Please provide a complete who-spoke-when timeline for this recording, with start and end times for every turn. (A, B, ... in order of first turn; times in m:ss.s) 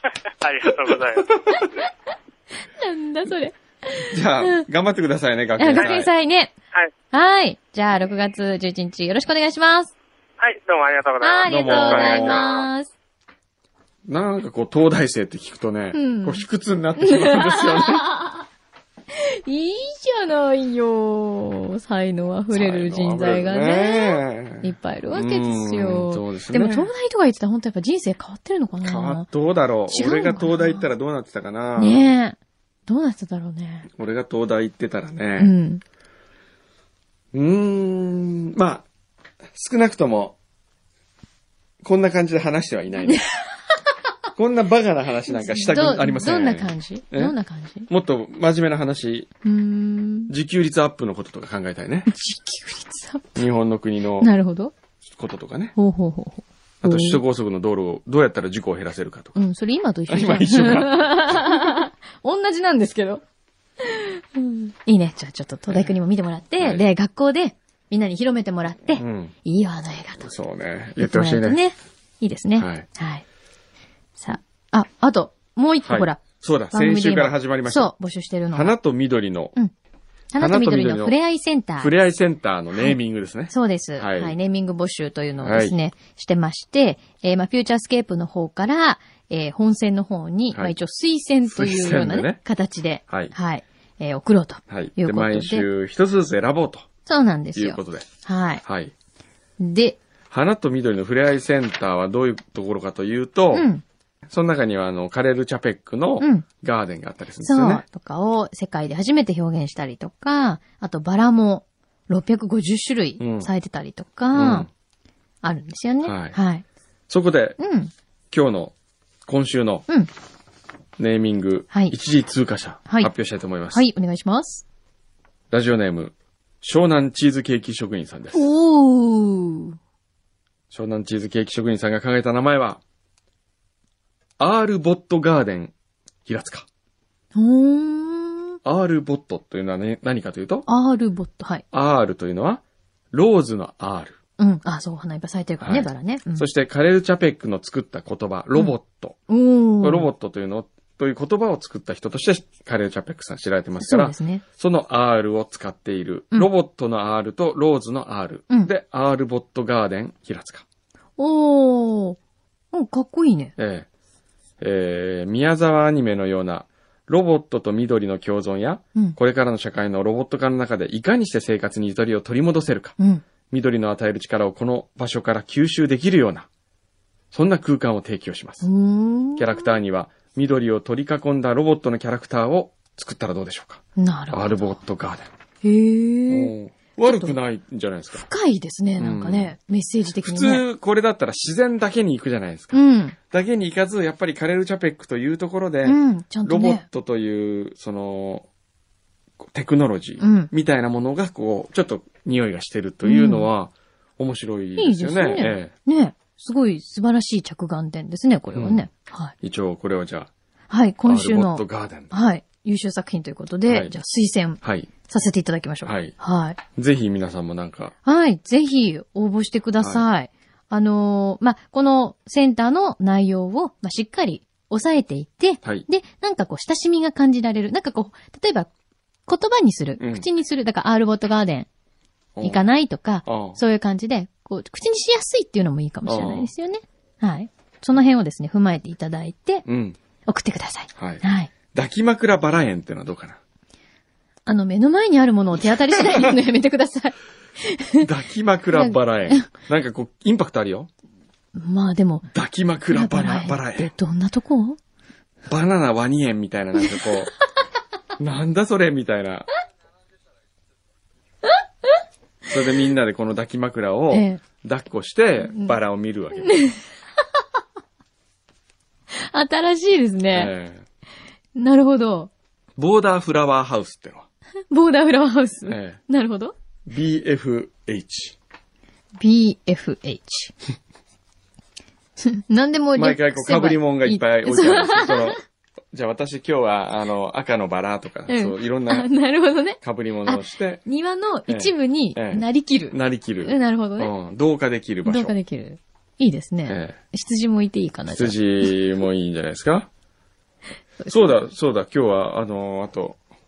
0:00.4-0:01.3 A
0:00.9-0:01.7 B
0:01.5-0:01.9 C
0:02.8-0:04.6 C
0:04.1-0:06.1 B
0:05.6-0:06.5 C
0:05.8-0:06.0 A
0:07.1-0:09.9 C
0:10.4-0:12.7 A
0:11.2-0:12.9 C
0:11.5-0:12.4 B
0:14.1-0:18.1 B
0:15.9-0:16.5 C
0:17.0-0:18.4 C
0:19.1-0:29.3 C
0:22.5-0:26.9 B
0:28.8-0:32.1 B
0:29.9-0:30.9 C
0:31.8-0:33.9 C
0:33.9-0:35.5 B
0:35.4-0:35.8 C
0:37.3-0:38.9 B
0:39.5-0:40.4 B
0:41.8-0:43.3 B
0:44.4-0:47.4 B
0:45.3-0:47.9 C
0:47.9-0:49.3 B
0:49.4-0:50.3 C
0:50.3-0:52.1 B
0:52.1-0:53.4 C
0:53.4-0:54.3 B
0:54.2-0:54.7 C
0:55.1-0:55.8 B
0:55.8-0:57.2 C
0:56.8-0:59.4 B
0:59.4-1:03.2 C
1:00.1-1:01.5 B
1:03.8-1:10.3 C
1:06.6-1:06.8 B
1:09.0-1:09.3 B
1:10.2-1:11.6 B
1:11.0-1:13.2 C
1:12.6-1:12.9 B
1:14.2-1:18.8 C
1:15.8-1:17.9 B
1:18.5-1:19.5 B
1:20.3-1:21.9 C
1:20.4-1:21.2 B
1:21.8-1:24.4 B
1:23.5-1:35.7 C
1:25.4-1:25.8 B
1:31.5-1:32.4 B
1:33.1-1:33.3 B
1:34.7-1:36.9 B
1:37.1-1:38.6 C
1:37.6-1:38.1 B
1:38.6-1:38.9 B
1:39.6-1:40.0 C
1:40.3-1:43.7 B
1:43.5-1:43.8 C
1:44.3-1:47.8 B
1:46.2-1:46.4 C
1:47.4-1:54.7 C
1:53.2-1:53.5 B
1:54.3-1:54.7 B
1:55.4-1:56.6 C
1:56.0-1:56.4 B
1:57.1-1:57.6 B
1:57.6-1:57.9 C
1:58.3-1:58.7 B
1:59.3-1:59.8 B
2:01.0-2:03.9 B
2:03.7-2:04.6 C
2:05.5-2:08.5 B
2:08.3-2:09.8 C
2:10.7-2:12.8 B
2:14.4-2:15.7 B
2:16.3-2:16.7 B
2:17.4-2:18.6 C
2:18.6-2:20.7 B
2:20.7-2:21.6 C
2:21.7-2:24.2 B
2:24.4-2:26.5 C
2:25.6-2:29.2 B
2:29.3-2:30.1 C
2:29.8-2:40.6 B
2:33.8-2:34.4 C
2:41.2-2:42.2 C
2:42.7-2:43.5 C
2:43.6-2:43.9 B
2:44.6-2:53.0 B
2:53.0-2:53.2 C
2:53.5-2:56.5 B
2:57.3-2:58.7 B
2:58.6-2:59.7 C
2:59.4-3:05.3 B
3:04.0-3:04.8 C
3:05.6-3:06.5 C
3:06.3-3:08.2 B
3:07.0-3:07.4 C
3:08.1-3:10.6 C
3:09.0-3:09.6 B
3:10.2-3:18.5 B
3:12.7-3:13.2 C
3:15.8-3:16.8 C
3:19.4-3:25.7 B
3:20.2-3:20.5 C
3:23.0-3:23.5 C
3:24.8-3:29.3 C
3:28.5-3:28.8 B
3:29.4-3:30.3 B
3:30.7-3:36.6 C
3:31.0-3:32.1 B
3:33.7-3:33.9 B
3:34.6-3:34.9 B
3:35.8-3:36.1 B
3:36.8-3:37.9 B
3:38.0-3:48.7 C
3:39.8-3:40.1 B
3:49.3-3:51.7 C
3:50.0-3:50.3 B
3:52.4-3:52.6 B
3:52.4-3:59.6 C
3:53.2-3:53.6 B
3:56.0-3:56.5 B
3:59.7-4:00.0 B
4:00.3-4:01.5 C
4:01.0-4:03.4 B
4:04.5-4:08.1 C
4:05.9-4:06.3 B
4:08.0-4:10.9 B
4:08.7-4:09.5 C
4:11.6-4:12.3 C
4:12.3-4:13.9 B
4:12.9-4:14.8 C
4:15.5-4:17.3 B
4:18.2-4:19.5 B
4:21.4-4:21.9 C
4:22.5-4:26.6 B
4:24.1-4:24.4 C
4:25.4-4:25.8 C
4:26.4-4:26.8 C
4:29.1-4:30.5 C
4:30.3-4:30.8 B
4:31.6-4:32.3 C
4:32.8-4:34.3 B
4:34.7-4:36.6 C
4:35.7-4:36.0 B
4:36.9-4:38.4 B
4:39.2-4:40.5 C
4:42.2-4:45.4 C
4:43.0-4:45.4 B
4:45.9-4:49.1 B
4:48.3-4:54.1 C
4:49.8-4:50.8 B
4:51.5-4:55.4 B
4:55.0-4:58.7 C
4:56.7-4:57.0 B
4:58.1-4:59.9 B
5:01.0-5:01.3 C
5:01.1-5:03.2 B